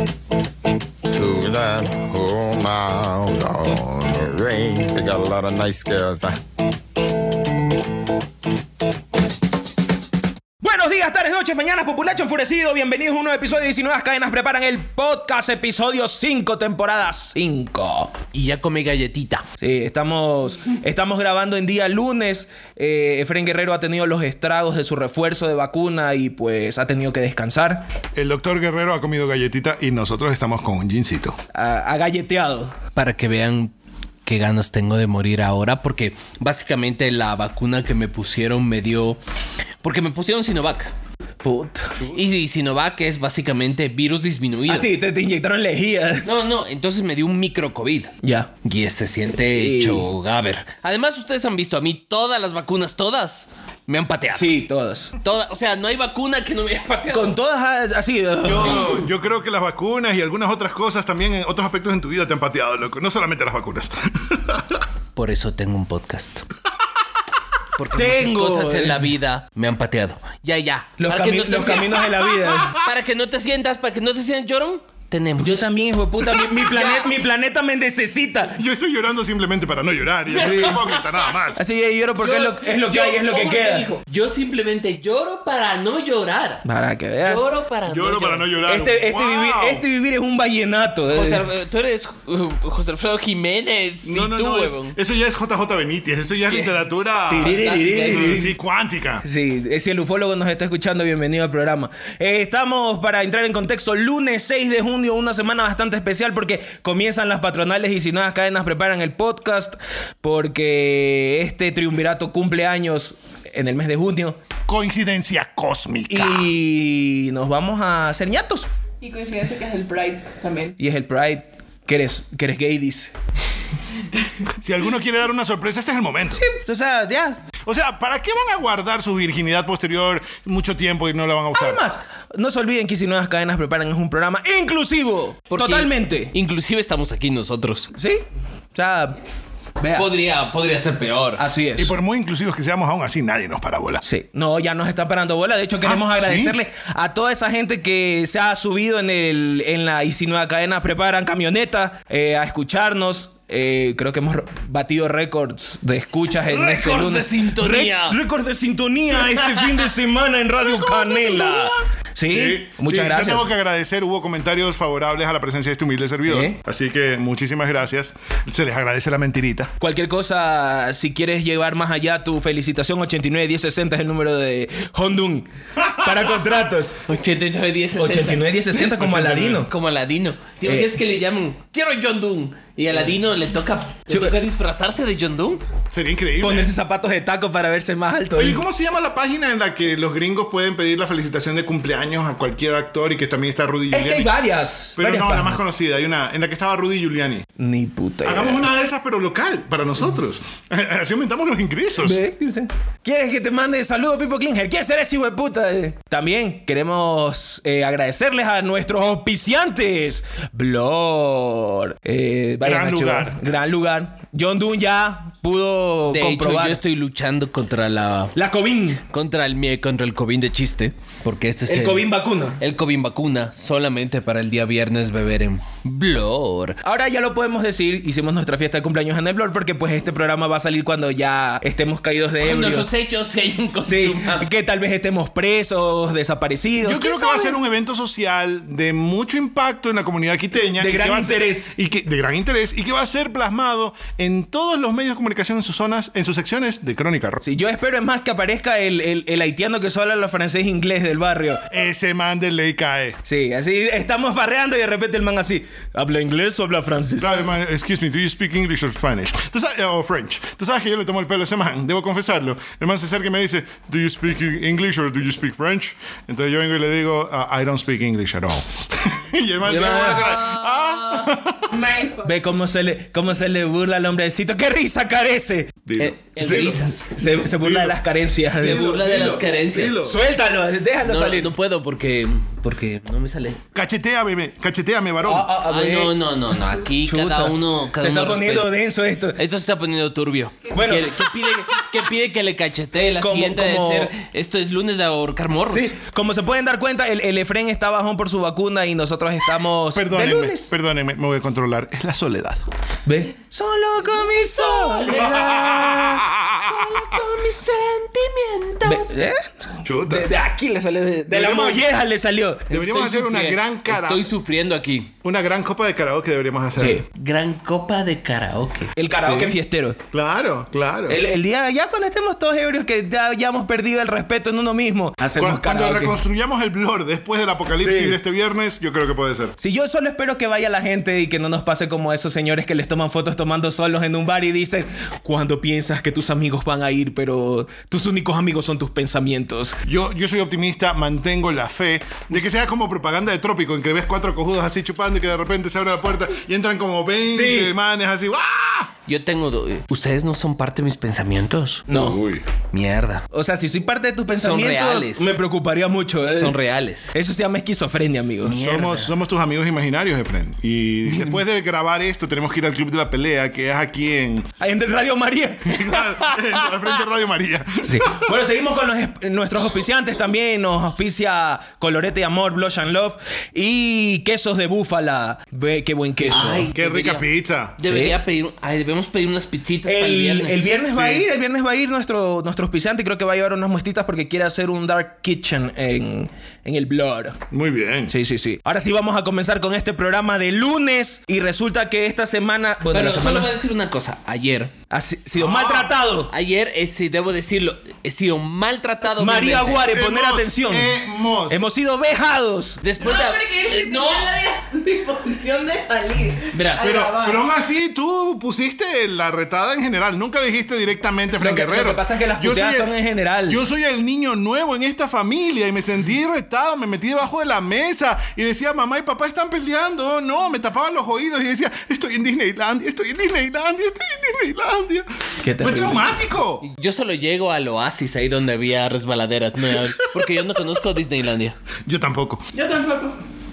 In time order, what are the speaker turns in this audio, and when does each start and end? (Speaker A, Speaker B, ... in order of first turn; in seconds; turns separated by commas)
Speaker A: 1.1-6.4, Speaker B: 10.6-18.1, Speaker C: 18.3-19.5, Speaker B: 19.6-27.9, Speaker D: 28.2-31.4, Speaker B: 31.5-32.8, Speaker C: 33.0-33.7, Speaker C: 34.2-39.2, Speaker C: 39.8-40.9, Speaker B: 41.4-42.0, Speaker D: 42.0-42.2, Speaker C: 42.1-44.9, Speaker B: 44.7-46.3, Speaker C: 46.2-54.5, Speaker B: 48.2-48.5, Speaker B: 49.4-50.1, Speaker B: 54.3-55.1, Speaker C: 55.2-57.4, Speaker B: 57.1-59.1, Speaker D: 58.4-64.8, Speaker C: 65.2-66.5, Speaker C: 67.8-72.2, Speaker B: 67.9-69.1, Speaker B: 71.0-72.8, Speaker C: 72.8-75.6, Speaker B: 75.4-78.6, Speaker C: 76.4-77.1, Speaker D: 78.5-81.6, Speaker C: 80.3-81.0, Speaker B: 80.4-80.8, Speaker B: 81.5-83.9, Speaker C: 82.2-86.6, Speaker B: 86.7-87.5, Speaker C: 87.2-88.5, Speaker D: 87.9-89.8, Speaker B: 88.7-91.5, Speaker C: 91.1-95.0, Speaker D: 94.0-97.5, Speaker C: 96.4-96.8, Speaker B: 97.3-98.6, Speaker C: 97.4-98.4, Speaker D: 98.1-99.2, Speaker B: 99.2-114.4, Speaker D: 114.7-116.5, Speaker B: 116.1-118.7, Speaker E: 119.0-120.8, Speaker B: 120.8-123.1, Speaker D: 124.6-126.5, Speaker B: 126.3-127.4, Speaker D: 127.7-131.8, Speaker B: 131.5-136.3, Speaker C: 135.5-137.9, Speaker B: 137.9-138.2, Speaker B: 138.7-139.2, Speaker B: 139.8-140.1, Speaker C: 139.9-141.4, Speaker B: 141.4-141.9, Speaker D: 141.8-144.0, Speaker B: 144.0-163.5, Speaker D: 145.8-146.6, Speaker C: 156.4-158.2, Speaker C: 159.2-159.9, Speaker D: 160.6-169.7, Speaker B: 166.2-166.6, Speaker B: 169.8-177.1, Speaker C: 177.1-178.6, Speaker B: 177.9-179.7, Speaker D: 178.8-179.7, Speaker C: 179.7-185.6, Speaker B: 180.6-180.9, Speaker B: 184.1-184.4, Speaker D: 185.9-186.7, Speaker B: 186.4-188.6, Speaker D: 188.4-194.3, Speaker B: 193.9-195.6, Speaker D: 195.0-197.5, Speaker B: 197.6-198.7, Speaker D: 198.2-202.2, Speaker B: 202.0-216.8, Speaker D: 212.6-213.4, Speaker C: 216.1-218.4, Speaker B: 218.3-219.0, Speaker C: 219.1-226.8, Speaker B: 221.7-222.6, Speaker B: 226.8-232.9, Speaker C: 232.4-234.5, Speaker B: 233.9-237.6, Speaker D: 236.8-247.4, Speaker B: 240.8-241.8, Speaker B: 247.4-251.7, Speaker D: 251.7-253.2, Speaker B: 253.2-257.4, Speaker D: 257.2-271.7, Speaker B: 269.6-270.3, Speaker C: 270.0-271.2, Speaker E: 271.7-272.4, Speaker B: 272.2-279.4, Speaker D: 275.9-278.0, Speaker C: 276.0-277.1, Speaker D: 278.6-280.2, Speaker C: 278.6-280.1, Speaker B: 280.0-281.5, Speaker C: 281.0-283.6, Speaker D: 283.7-285.5, Speaker B: 285.2-289.4, Speaker C: 285.6-288.7, Speaker C: 289.4-296.0, Speaker B: 290.7-291.8, Speaker B: 293.2-294.1, Speaker B: 295.7-300.7, Speaker D: 299.9-302.6, Speaker B: 303.1-306.3, Speaker C: 304.6-306.0, Speaker D: 305.1-306.7, Speaker C: 306.6-309.2, Speaker B: 308.8-312.8, Speaker D: 309.8-310.3, Speaker D: 311.3-311.9, Speaker D: 312.7-314.3, Speaker C: 312.7-315.1, Speaker D: 315.2-317.0, Speaker B: 316.8-317.1, Speaker C: 317.1-318.9, Speaker B: 319.0-320.0, Speaker D: 319.2-319.6, Speaker D: 320.1-321.2, Speaker B: 321.1-326.2, Speaker D: 325.4-329.6, Speaker B: 327.8-328.2, Speaker B: 329.6-339.8, Speaker D: 339.9-348.9, Speaker B: 347.3-347.7, Speaker C: 349.1-351.9, Speaker B: 351.9-352.2, Speaker D: 351.9-352.4, Speaker C: 352.7-353.2, Speaker B: 353.3-356.6, Speaker C: 354.4-355.4, Speaker C: 356.3-357.2, Speaker B: 357.1-358.6, Speaker C: 358.4-359.1, Speaker D: 358.5-364.5, Speaker B: 364.6-366.0, Speaker D: 365.7-368.4, Speaker B: 367.9-376.7, Speaker D: 376.2-377.8, Speaker C: 376.3-380.7, Speaker B: 377.9-378.2, Speaker B: 379.9-387.4, Speaker D: 380.8-381.2, Speaker D: 387.5-388.1, Speaker B: 388.1-393.5, Speaker C: 392.9-394.7, Speaker B: 394.9-396.3, Speaker D: 395.4-395.9, Speaker C: 396.3-399.9, Speaker B: 399.0-401.0, Speaker D: 399.9-401.6, Speaker B: 401.5-402.8, Speaker C: 402.8-404.4, Speaker E: 403.0-407.4, Speaker C: 406.5-406.9, Speaker D: 406.8-412.9, Speaker B: 411.4-413.6, Speaker D: 413.5-426.6, Speaker B: 425.4-426.2, Speaker C: 426.6-431.6, Speaker D: 431.9-432.4, Speaker E: 432.5-433.2